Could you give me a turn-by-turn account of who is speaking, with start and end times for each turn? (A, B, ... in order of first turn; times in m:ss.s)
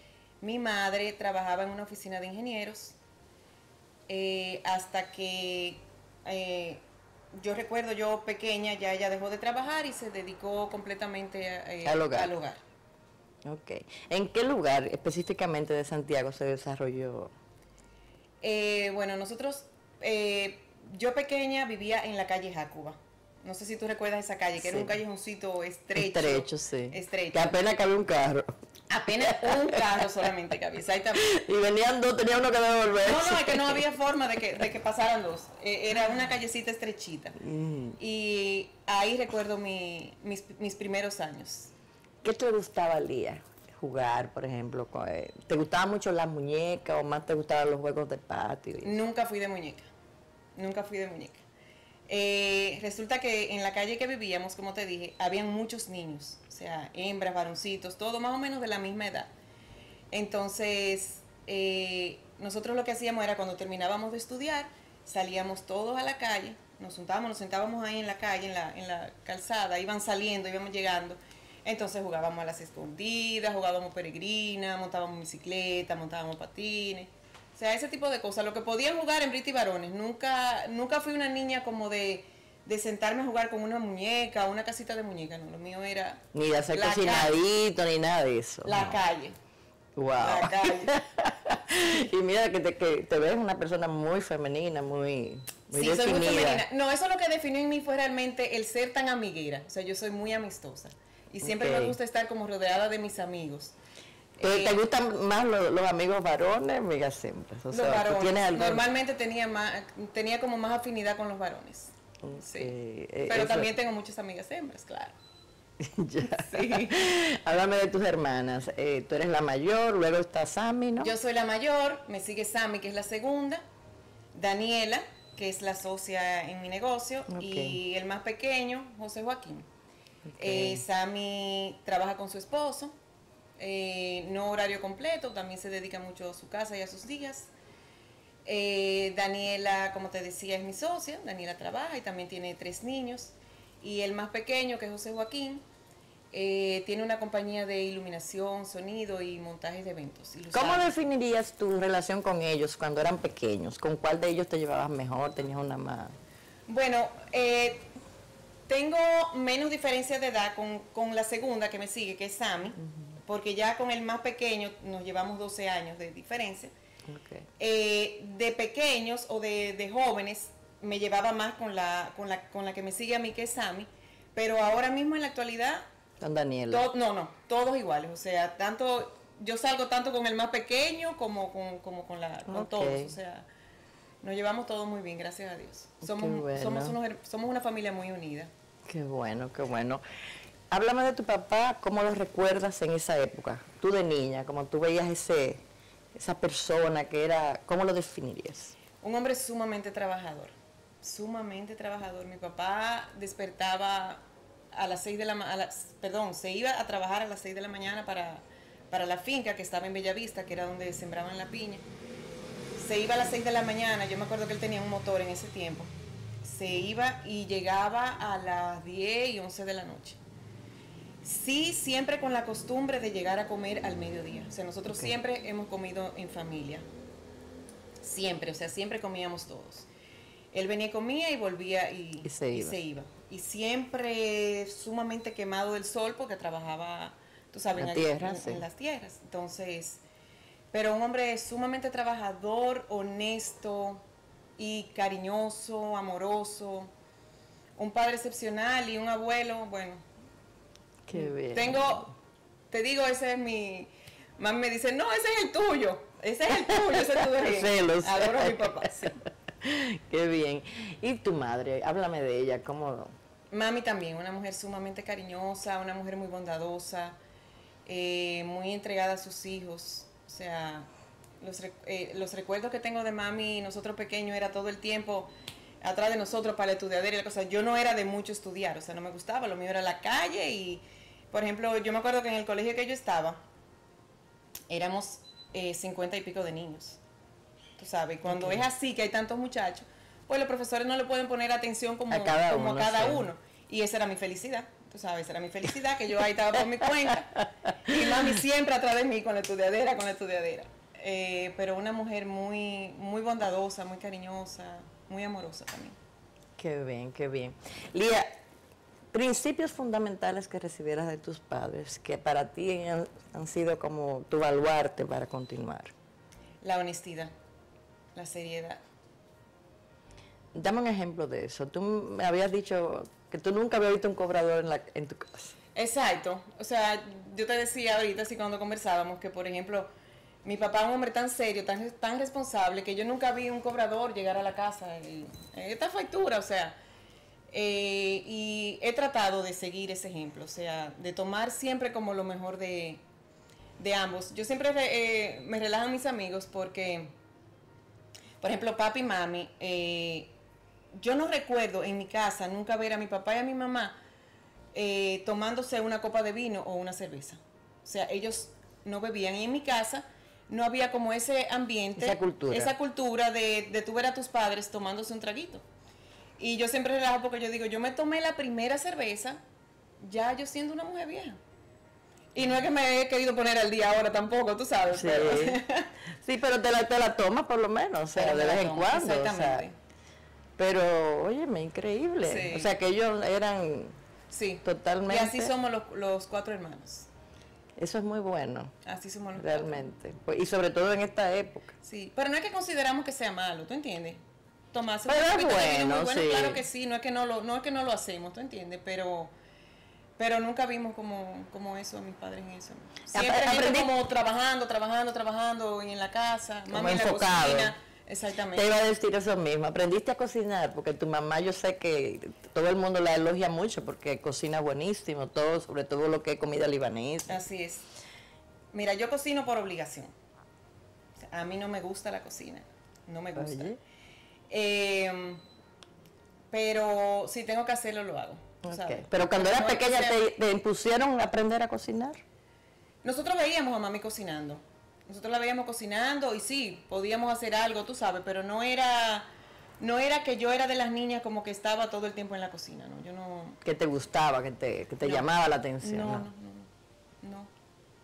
0:00.4-0:03.0 A
0:04.1-0:06.8 A
0:07.4-0:12.6 A
0:11.8-0:12.3 B
0:13.4-0:17.3 B
0:18.4-0:27.6 A
0:24.6-0:25.0 B
0:26.0-0:28.6 B
0:28.9-0:31.3 A
0:29.3-0:29.8 B
0:31.2-0:33.8 B
0:33.0-0:37.4 A
0:37.4-0:38.0 B
0:38.0-0:41.7 A
0:42.2-0:49.0 B
0:48.8-0:49.9 A
0:50.6-0:51.4 A
0:52.1-0:59.3 A
1:00.1-1:27.4 A
1:26.3-1:29.0 B
1:28.6-1:29.4 A
1:30.0-1:36.6 B
1:30.2-1:30.9 A
1:35.7-1:43.8 A
1:41.4-1:42.0 B
1:44.4-1:44.8 A
1:44.4-1:48.8 B
1:47.7-1:52.7 A
1:52.2-1:53.7 B
1:53.3-1:55.2 A
1:55.8-2:01.1 B
1:56.2-1:57.0 A
2:01.0-2:03.6 A
2:04.3-2:09.7 A
2:07.3-2:07.8 B
2:10.3-2:10.8 B
2:10.4-2:12.9 A
2:13.6-2:17.5 A
2:18.4-2:25.6 A
2:26.3-2:30.9 A
2:30.5-2:36.2 B
2:36.7-2:37.9 A
2:38.7-2:46.7 A
2:47.1-2:47.5 B
2:47.6-2:55.8 A
2:56.2-2:56.9 B
2:56.7-3:03.5 A
3:02.5-3:03.1 B
3:04.2-3:08.5 A
3:06.0-3:07.0 B
3:08.9-3:10.0 B
3:10.7-3:15.6 B
3:16.2-3:18.8 B
3:19.0-3:24.2 A
3:24.7-3:31.8 A
3:32.8-3:40.2 A
3:41.2-3:46.9 A
3:48.0-3:49.9 A
3:50.5-4:00.0 A
3:52.2-3:52.8 B
3:57.8-3:58.6 B
4:00.7-4:04.0 A
4:04.6-4:06.9 A
4:07.8-4:10.0 A
4:11.1-4:12.1 B
4:11.1-4:12.1 A
4:12.7-4:19.2 A
4:16.7-4:19.1 B
4:19.6-4:23.1 B
4:23.5-4:27.2 A
4:27.9-4:30.9 A
4:31.4-4:35.3 A
4:35.8-4:43.4 A
4:44.7-4:47.0 A
4:47.8-5:06.0 A
4:48.3-4:48.6 B
4:52.1-4:53.3 B
5:06.6-5:08.3 B
5:09.1-5:15.9 B
5:16.6-5:17.3 A
5:18.2-5:18.8 A
5:20.6-5:25.6 B
5:25.8-5:29.9 A
5:30.4-5:36.8 A
5:37.5-5:43.0 A
5:43.8-5:47.2 A
5:48.4-5:50.3 A
5:50.9-5:54.0 A
5:54.7-6:05.6 A
6:02.0-6:02.7 B
6:06.4-6:09.4 A
6:10.0-6:11.4 A
6:12.4-6:15.9 A
6:14.9-6:15.6 B
6:16.2-6:19.7 B
6:18.2-6:19.8 A
6:20.6-6:24.0 B
6:22.2-6:22.7 A
6:24.3-6:27.1 A
6:24.6-6:25.5 B
6:27.8-6:28.7 B
6:28.8-6:29.8 A
6:29.4-6:31.7 B
6:31.8-6:34.2 A
6:34.7-6:39.3 A
6:35.1-6:36.6 B
6:40.2-6:48.7 A
6:43.1-6:43.9 B
6:46.7-6:47.8 B
6:48.5-6:57.4 B
6:57.3-6:57.9 A
6:58.7-7:00.1 A
7:01.3-7:03.7 A
7:03.4-7:03.8 B
7:04.5-7:05.4 A
7:06.5-7:10.2 A
7:08.6-7:12.2 B
7:13.0-7:19.3 A
7:19.8-7:23.6 A
7:23.6-7:26.3 B
7:25.0-7:26.7 A
7:27.2-7:27.5 A